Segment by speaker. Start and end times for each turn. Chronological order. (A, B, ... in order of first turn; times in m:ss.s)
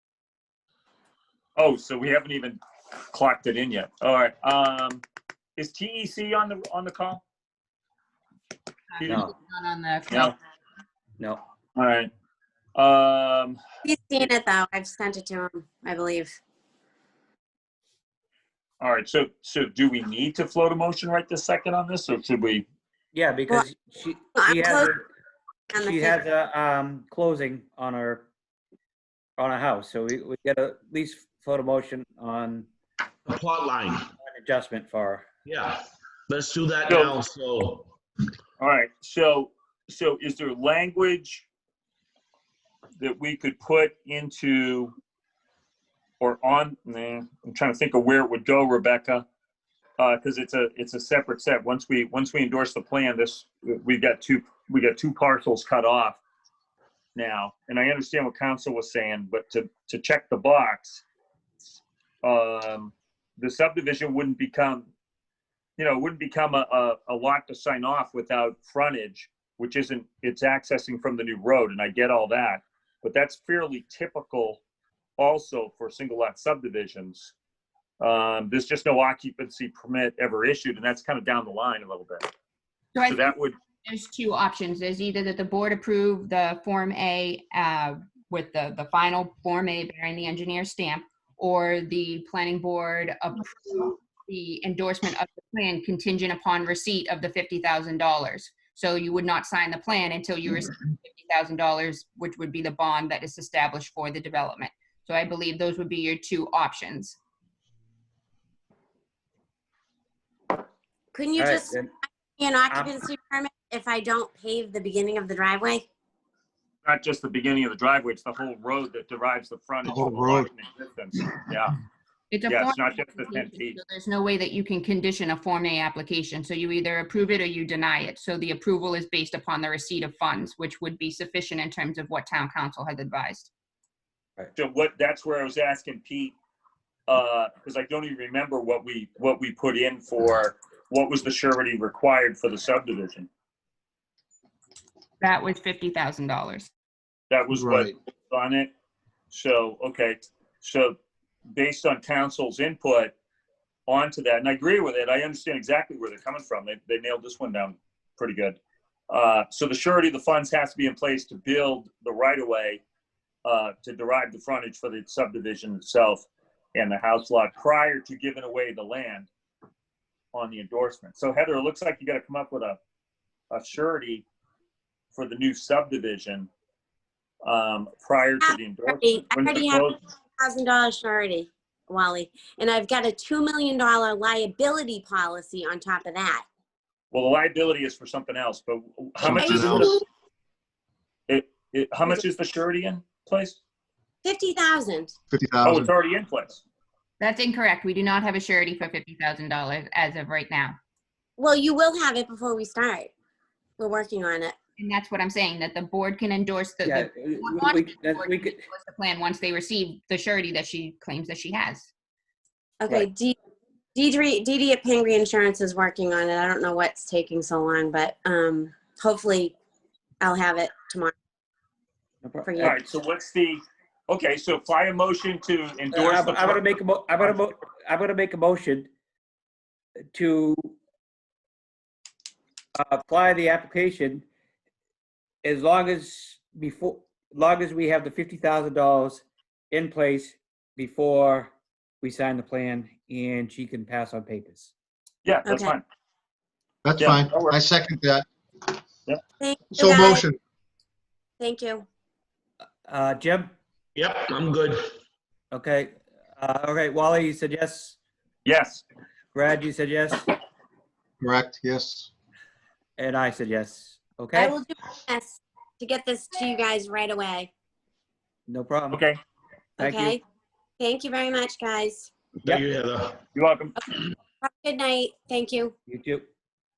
0:01.6-0:02.6 A
0:03.1-0:05.0 A
0:05.6-0:07.2 A
0:08.9-0:10.3 B
0:09.1-0:09.3 C
0:11.8-0:12.1 A
0:12.8-0:13.6 A
0:13.8-0:16.4 D
0:18.8-0:22.6 A
0:23.1-0:25.0 C
0:24.4-0:25.0 D
0:25.7-0:26.2 D
0:25.7-0:28.3 C
0:29.4-0:32.7 C
0:33.3-0:34.1 E
0:34.2-0:35.3 C
0:35.4-0:37.9 E
0:36.9-0:37.2 A
0:38.6-0:41.5 A
0:43.0-0:44.9 A
0:46.2-0:49.2 A
0:50.0-0:56.2 A
0:57.2-1:01.0 A
1:02.2-1:04.9 A
1:05.8-1:14.6 A
1:15.2-1:17.3 A
1:18.0-1:22.3 A
1:23.0-1:23.3 B
1:23.1-1:23.6 A
1:23.8-1:47.2 B
1:51.1-1:51.8 D
1:51.4-1:51.9 C
1:52.4-1:55.8 D
1:56.8-2:01.8 A
1:59.9-2:00.5 F
2:02.3-2:13.5 B
2:02.5-2:03.8 A
2:14.6-2:16.4 A
2:17.1-2:23.3 A
2:25.2-2:26.7 B
2:27.3-2:28.7 A
2:29.3-2:31.0 A
2:31.5-2:33.1 A
2:33.9-2:38.6 A
2:39.1-2:42.8 A
2:43.4-2:49.3 A
2:50.3-2:52.8 A
2:53.5-2:54.2 A
2:55.1-2:56.5 A
2:57.5-3:00.0 A
2:58.4-3:06.4 D
3:07.1-3:10.0 A
3:09.2-3:10.0 E
3:11.3-3:13.6 A
3:14.2-3:15.2 D
3:15.3-3:15.9 F
3:15.6-3:16.6 A
3:17.2-3:20.8 B
3:21.4-3:23.1 D
3:23.8-3:24.6 D
3:24.8-3:31.9 B
3:26.8-3:28.6 C
3:32.8-3:33.4 D
3:34.0-3:39.5 D
3:40.2-3:41.1 D
3:42.2-3:42.8 C
3:42.4-3:42.8 D
3:42.6-3:46.6 A
3:45.9-3:48.9 C
3:50.1-3:50.8 C
3:52.8-3:54.3 C
3:55.4-4:04.7 C
4:05.2-4:05.8 A
4:05.5-4:05.8 D
4:06.8-4:08.2 F
4:07.0-4:07.6 A
4:09.4-4:10.3 D
4:09.8-4:10.4 F
4:11.4-4:11.8 D
4:12.9-4:13.5 C
4:14.0-4:14.9 E
4:15.5-4:18.0 C
4:18.5-4:18.8 A
4:19.3-4:20.3 C
4:21.2-4:22.1 F
4:23.0-4:24.6 C
4:24.4-4:27.5 D
4:28.5-4:29.0 C
4:28.9-4:29.2 A
4:29.8-4:30.2 C
4:29.8-4:30.2 D
4:30.8-4:32.1 D
4:32.4-4:33.2 E
4:33.3-4:33.8 A
4:34.4-4:35.7 D
4:35.9-4:36.3 C